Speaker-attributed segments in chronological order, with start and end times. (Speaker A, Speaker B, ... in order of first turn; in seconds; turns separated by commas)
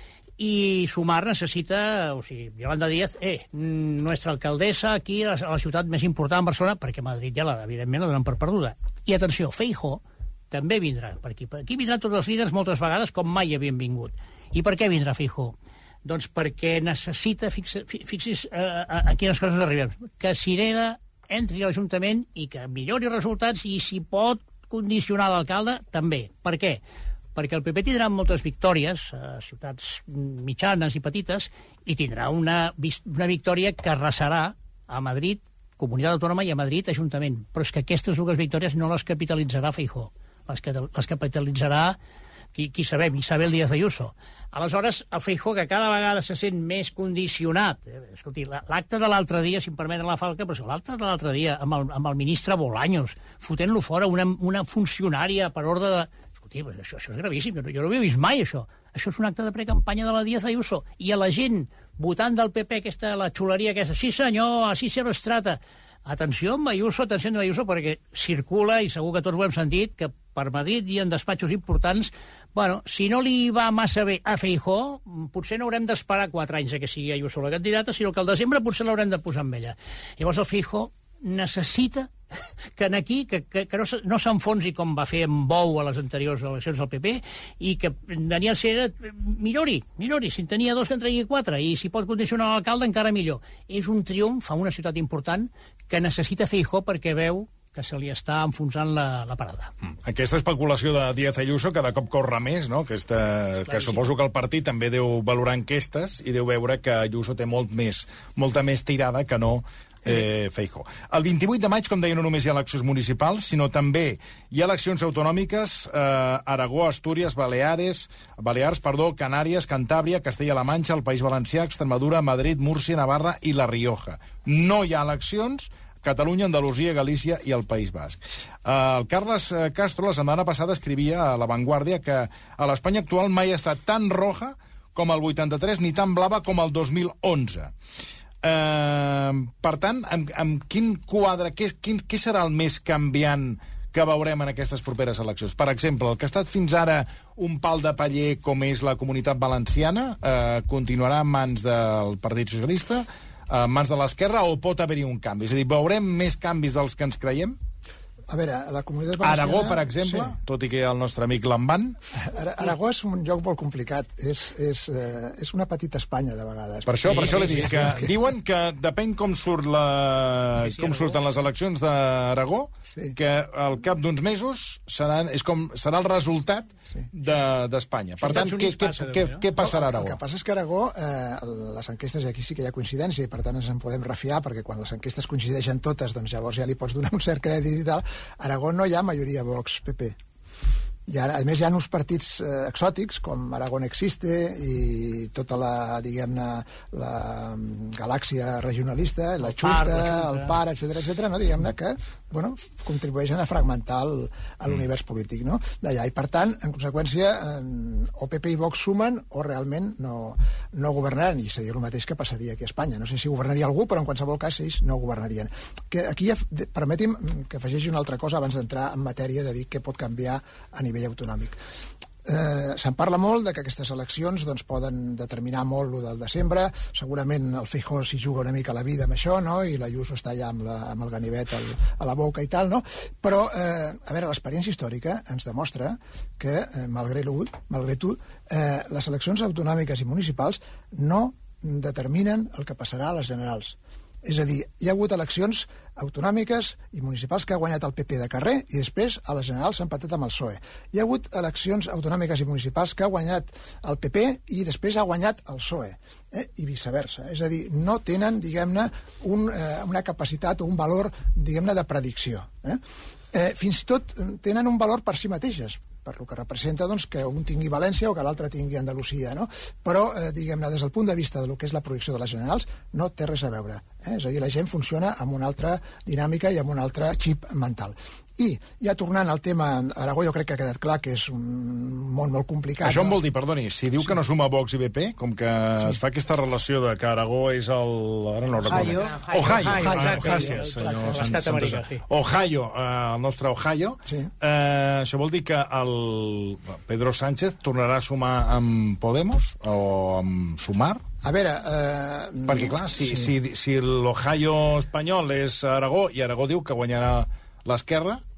Speaker A: 0.4-15.5, Speaker A: 16.0-26.8, Speaker A: 27.4-42.0, Speaker A: 42.5-82.1, Speaker A: 82.8-99.7, Speaker B: 100.0-137.7, Speaker A: 103.7-104.0, Speaker B: 138.4-157.6, Speaker C: 158.3-160.3, Speaker B: 159.2-162.0, Speaker C: 162.1-168.1, Speaker B: 166.9-180.2, Speaker A: 167.1-167.9, Speaker A: 170.6-171.2, Speaker C: 172.9-173.1, Speaker A: 178.2-179.4, Speaker C: 179.6-190.2, Speaker C: 191.1-221.6, Speaker A: 199.4-200.6, Speaker C: 222.2-262.8, Speaker C: 263.3-283.2, Speaker B: 282.8-301.0, Speaker A: 288.7-292.0, Speaker C: 289.8-291.3, Speaker C: 294.1-294.3, Speaker C: 301.2-303.3, Speaker B: 302.5-308.2